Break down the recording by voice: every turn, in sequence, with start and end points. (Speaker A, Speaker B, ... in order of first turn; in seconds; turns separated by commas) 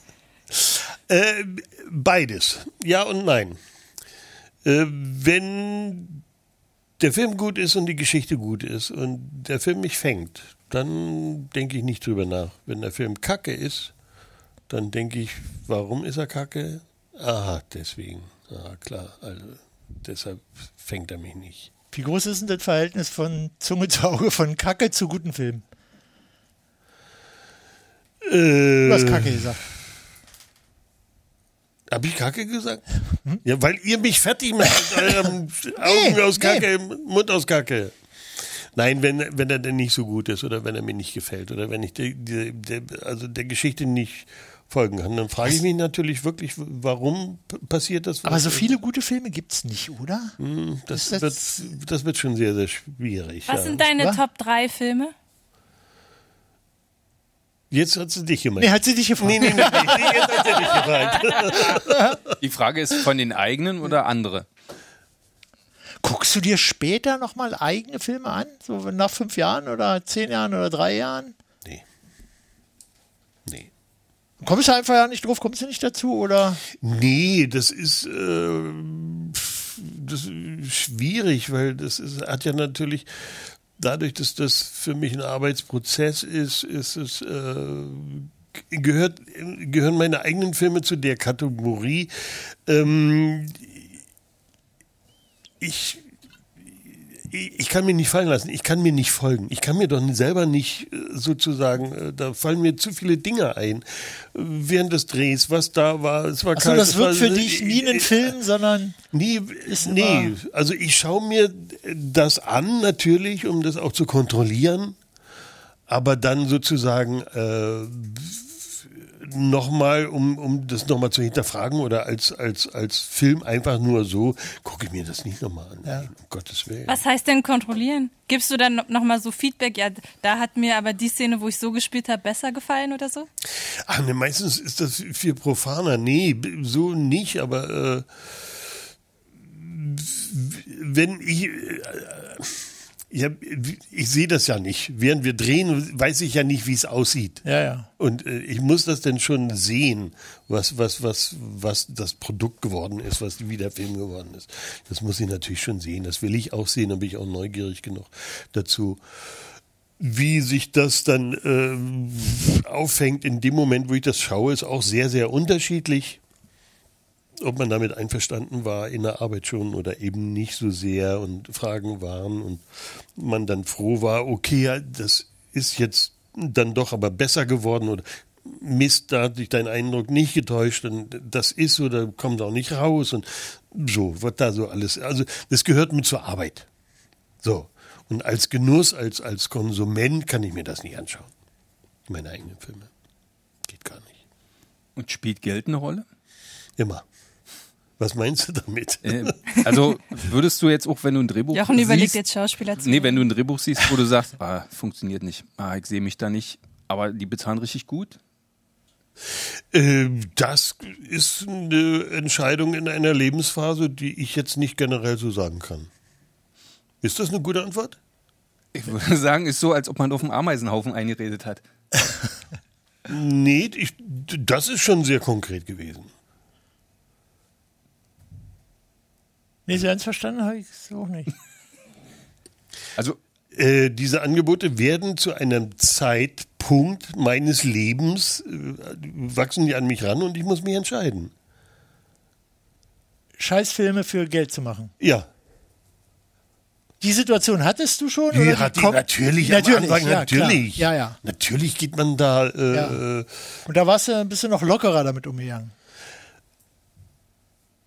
Speaker A: 0.5-3.6, Speaker A: 4.6-6.2, Speaker A: 7.0-13.9, Speaker A: 14.7-21.7, Speaker B: 21.9-25.6, Speaker A: 28.2-29.5, Speaker B: 28.8-29.6, Speaker A: 31.9-32.9, Speaker A: 33.4-37.9, Speaker B: 35.8-36.6, Speaker A: 38.7-48.7, Speaker B: 48.2-50.3, Speaker A: 50.4-53.8, Speaker B: 50.9-51.7, Speaker C: 53.5-55.1, Speaker A: 57.7-62.2, Speaker B: 58.6-60.4, Speaker B: 61.9-62.1, Speaker D: 62.4-64.5, Speaker B: 66.0-71.3, Speaker B: 74.4-76.6, Speaker A: 76.8-93.8, Speaker A: 95.6-96.0, Speaker A: 97.2-108.3, Speaker B: 106.5-109.0, Speaker A: 109.1-115.0, Speaker B: 109.7-110.3, Speaker A: 115.9-127.0, Speaker C: 126.9-133.3, Speaker A: 133.6-138.1, Speaker A: 139.5-147.4, Speaker B: 147.4-147.9, Speaker A: 148.0-159.0, Speaker A: 160.0-166.2, Speaker A: 167.4-186.7, Speaker A: 187.4-191.3, Speaker A: 192.1-192.9, Speaker A: 193.6-194.2, Speaker D: 194.9-196.1, Speaker A: 196.8-197.1, Speaker A: 198.0-199.3, Speaker D: 199.1-202.2, Speaker C: 201.5-203.2, Speaker D: 202.8-208.2, Speaker A: 209.7-215.9, Speaker A: 217.0-218.0, Speaker D: 218.7-221.6, Speaker A: 223.1-226.1, Speaker B: 229.7-231.3, Speaker A: 233.5-241.3, Speaker B: 243.4-244.9, Speaker A: 245.0-245.3, Speaker B: 247.0-251.2, Speaker A: 248.3-253.3, Speaker B: 252.7-253.0, Speaker B: 253.7-255.7